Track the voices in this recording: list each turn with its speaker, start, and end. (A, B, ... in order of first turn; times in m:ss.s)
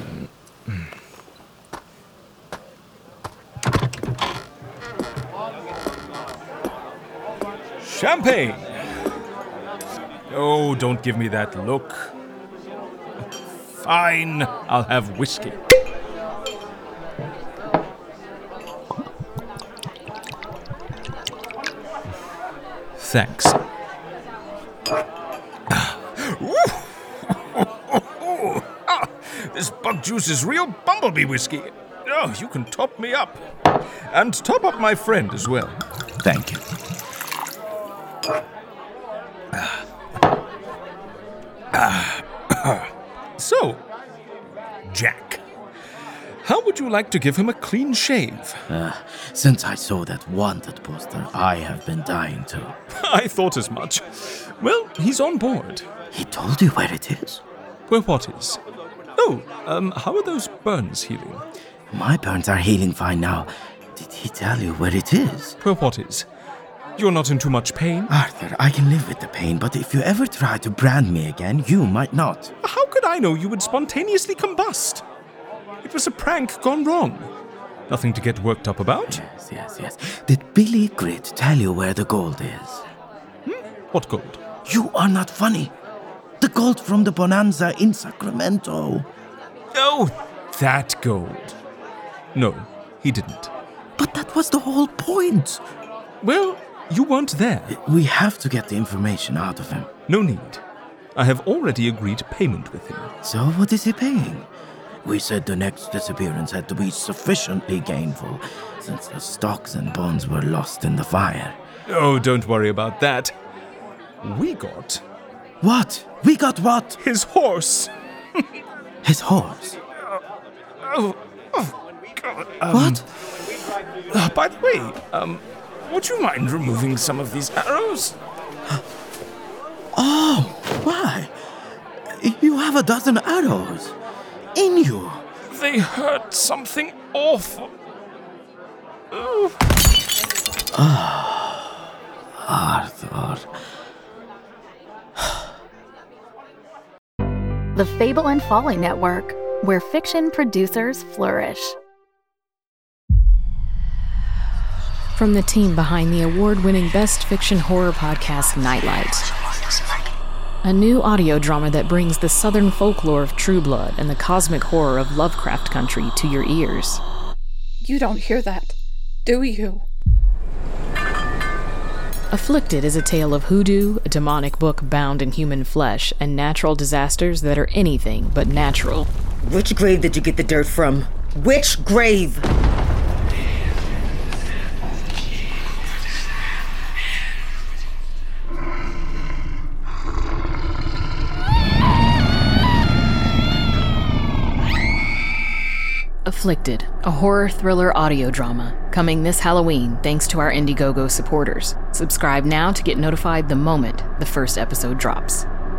0:00.2-0:00.9 A
0:07.8-0:08.7 A
0:10.3-0:12.1 A
0:13.7-0:15.6 A
0:23.0-0:23.6 A
0:25.7-0:33.4 A
0:34.1-0:35.8 A
0:36.2-0:36.6 B
0:39.5-0:39.8 A
0:41.7-0:43.8 A
0:44.9-0:45.4 A
0:46.4-0:48.6 A
0:48.7-0:52.8 B
0:52.9-0:55.9 A
0:56.1-0:57.4 B
0:57.9-0:58.6 A
0:59.2-1:01.4 A
1:01.9-1:05.6 B
1:05.6-1:06.2 A
1:07.0-1:08.1 A
1:08.1-1:12.5 B
1:12.6-1:15.0 A
1:15.8-1:17.3 A
1:17.9-1:19.2 A
1:19.1-1:22.8 B
1:23.4-1:24.4 A
1:24.6-1:25.7 B
1:26.4-1:29.1 B
1:29.7-1:31.6 A
1:32.3-1:33.5 A
1:34.0-1:35.6 B
1:36.2-1:37.8 A
1:37.7-1:39.9 B
1:40.1-1:40.6 A
1:41.1-1:43.1 A
1:43.2-1:44.5 B
1:45.0-1:51.6 B
1:51.9-1:53.3 A
1:54.2-1:55.0 A
1:55.6-1:57.0 B
1:57.0-1:58.4 A
1:59.0-1:59.8 B
2:00.8-2:03.0 A
2:02.7-2:03.0 B
2:04.1-2:08.2 A
2:09.9-2:11.3 B
2:12.2-2:13.9 B
2:14.5-2:15.3 B
2:15.5-2:17.7 A
2:19.1-2:19.5 A
2:20.7-2:21.7 B
2:22.4-2:23.5 B
2:27.7-2:31.8 C
2:35.1-2:39.3 D
2:40.6-2:47.0 D
2:47.8-2:49.8 E
2:52.3-2:59.1 D
2:59.4-3:02.4 F
3:16.2-3:25.4 D